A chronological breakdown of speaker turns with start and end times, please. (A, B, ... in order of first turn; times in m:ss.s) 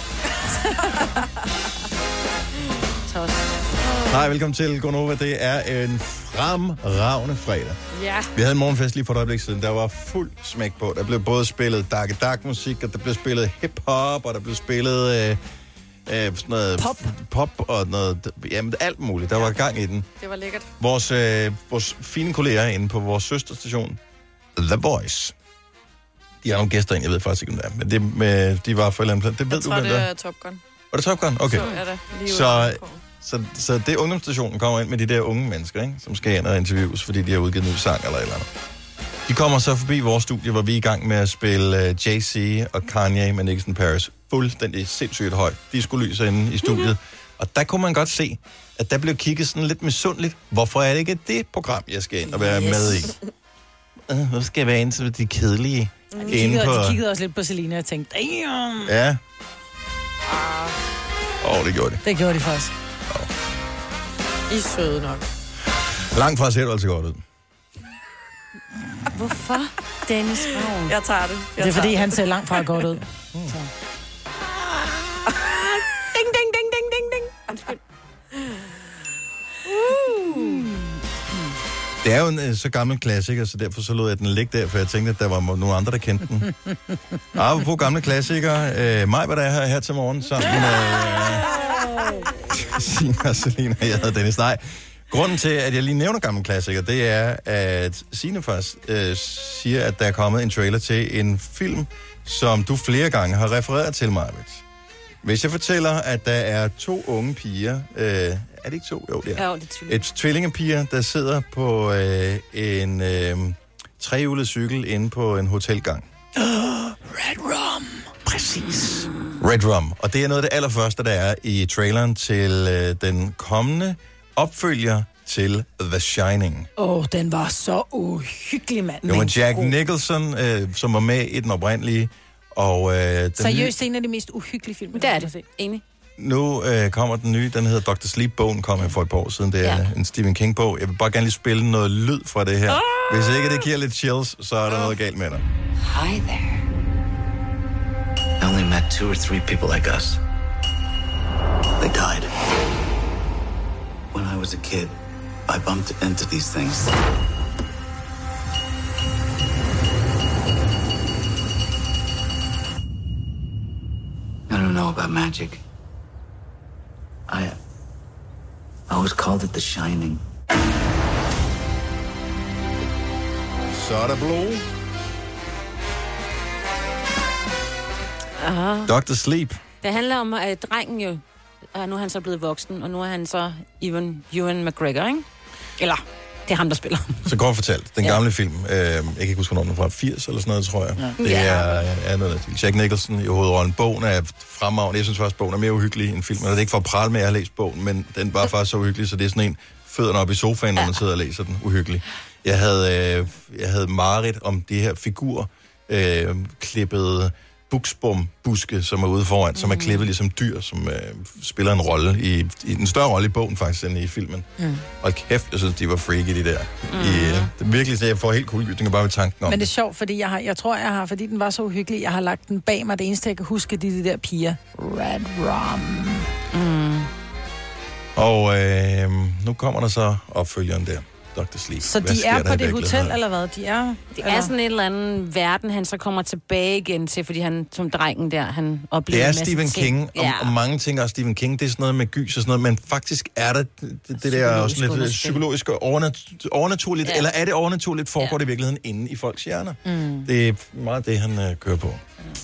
0:03.1-0:03.4 A
0:04.1-0:07.8 B
0:08.0-0:08.3 A
0:08.3-0:15.4 B
0:16.1-0:20.1 B
0:16.8-0:17.0 A
0:20.2-0:20.7 C
0:20.8-0:24.0 B
0:24.5-0:25.3 B
0:26.4-0:30.1 B
0:29.5-0:30.6 C
0:30.9-0:38.5 B
0:31.5-0:33.0 C
0:39.3-0:53.2 B
0:52.3-0:53.1 A
0:54.1-0:57.0 B
0:56.1-0:56.4 C
0:56.2-0:58.9 A
0:58.8-0:59.2 B
1:00.3-1:00.8 C
1:01.4-1:02.0 B
1:02.0-1:02.7 A
1:04.5-1:05.2 C
1:06.1-1:07.2 B
1:09.1-1:11.0 D
1:10.6-1:12.2 C
1:11.6-1:13.7 A
1:16.1-1:17.3 A
1:17.5-1:17.8 C
1:19.7-1:20.6 C
1:22.0-1:26.5 B
1:27.3-1:31.7 B
1:32.5-1:44.6 B
1:45.2-1:56.1 B
1:49.3-1:50.0 D
1:56.4-1:59.1 A
1:59.4-2:06.7 B
2:06.8-2:09.7 A
2:09.0-2:13.7 B
2:13.4-2:15.4 A
2:14.9-2:15.8 D
2:16.2-2:25.4 B
2:19.6-2:19.9 D
2:22.7-2:23.7 D
2:25.9-2:26.6 E
2:28.4-2:30.2 E
2:31.8-2:32.3 E
2:34.1-2:35.0 E
2:35.5-2:36.9 E
2:44.5-2:45.6 E
2:47.3-2:47.6 E
2:48.9-2:50.2 E
2:53.7-2:54.6 B
2:58.4-2:58.9 D
2:58.8-2:59.6 B
2:59.8-3:01.2 D
3:01.7-3:05.2 D
3:06.5-3:07.3 D
3:07.2-3:34.5 B
3:11.2-3:11.9 D
3:29.6-3:30.1 D
3:34.6-3:34.8 A
3:35.0-3:39.7 B
3:36.9-3:37.5 D
3:39.4-3:46.3 A
3:46.5-3:47.1 D
3:48.2-3:53.2 B
3:51.8-3:54.5 A
3:54.1-4:00.5 D
3:59.1-4:12.0 B
4:04.2-4:05.4 D
4:09.8-4:10.3 A